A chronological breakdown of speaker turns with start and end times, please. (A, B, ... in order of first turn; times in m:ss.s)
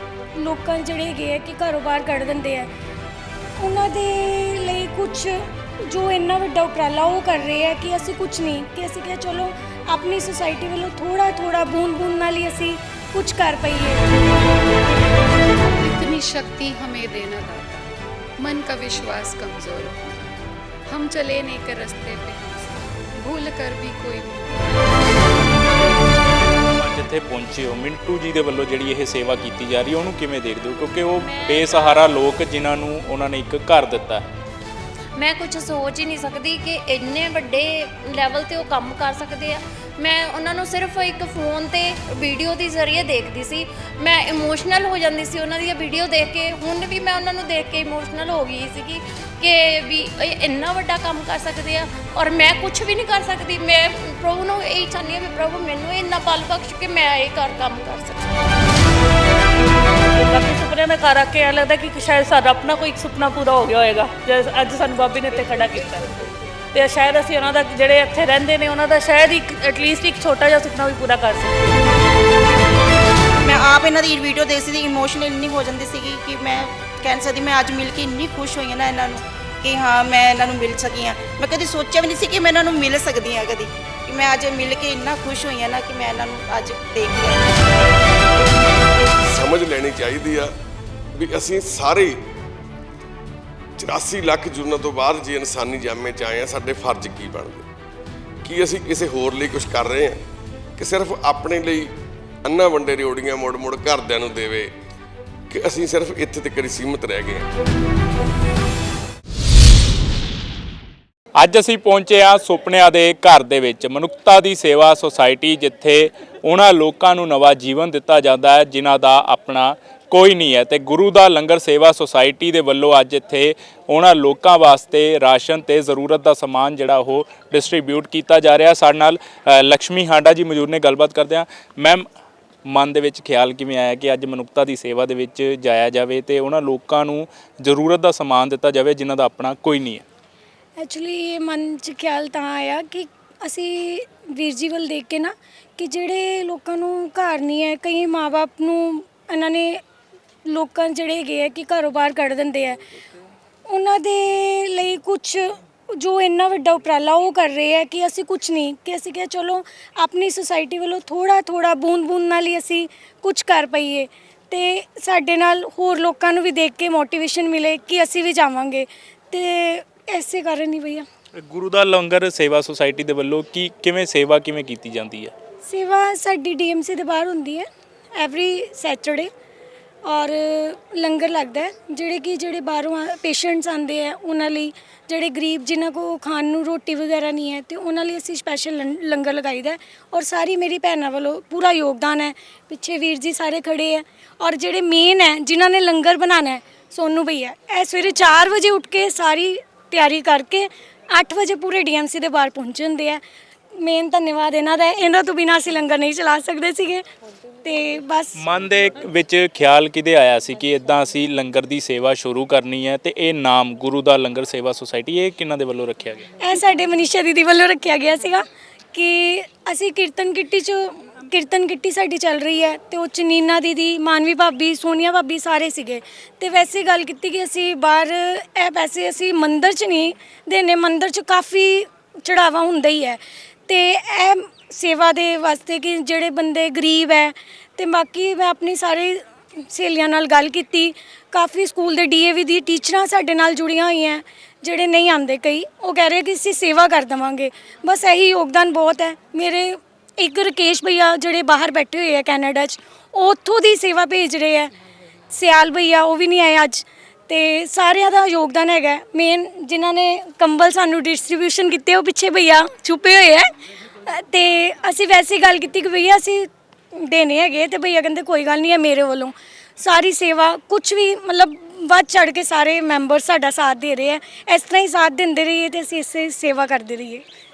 0:00.4-0:02.7 A
0:03.6-0:14.1 A
0:15.8-0:20.0 B
0:20.9-0:24.9 B
0:26.6-0:34.2 C
0:31.2-0:32.1 D
0:35.2-0:58.3 D
1:00.1-1:06.0 E
1:06.7-1:11.8 E
1:13.4-1:27.6 F
1:29.2-1:30.5 G
1:31.2-1:32.2 G
1:33.8-1:37.7 G
1:38.4-1:40.2 G
1:40.8-1:41.9 G
1:42.4-1:44.7 G
1:45.5-1:47.5 G
1:51.4-2:12.0 C
2:12.7-2:20.0 C
2:20.8-2:29.8 A
2:30.5-2:32.8 A
2:33.7-2:51.0 A
2:51.4-2:55.3 C
2:55.6-2:59.3 A
3:00.1-3:23.2 A
3:23.8-3:27.0 A
3:27.6-3:28.4 A
3:28.4-3:36.3 C
3:36.4-4:14.7 A
4:15.3-4:23.5 A
4:24.0-4:37.2 A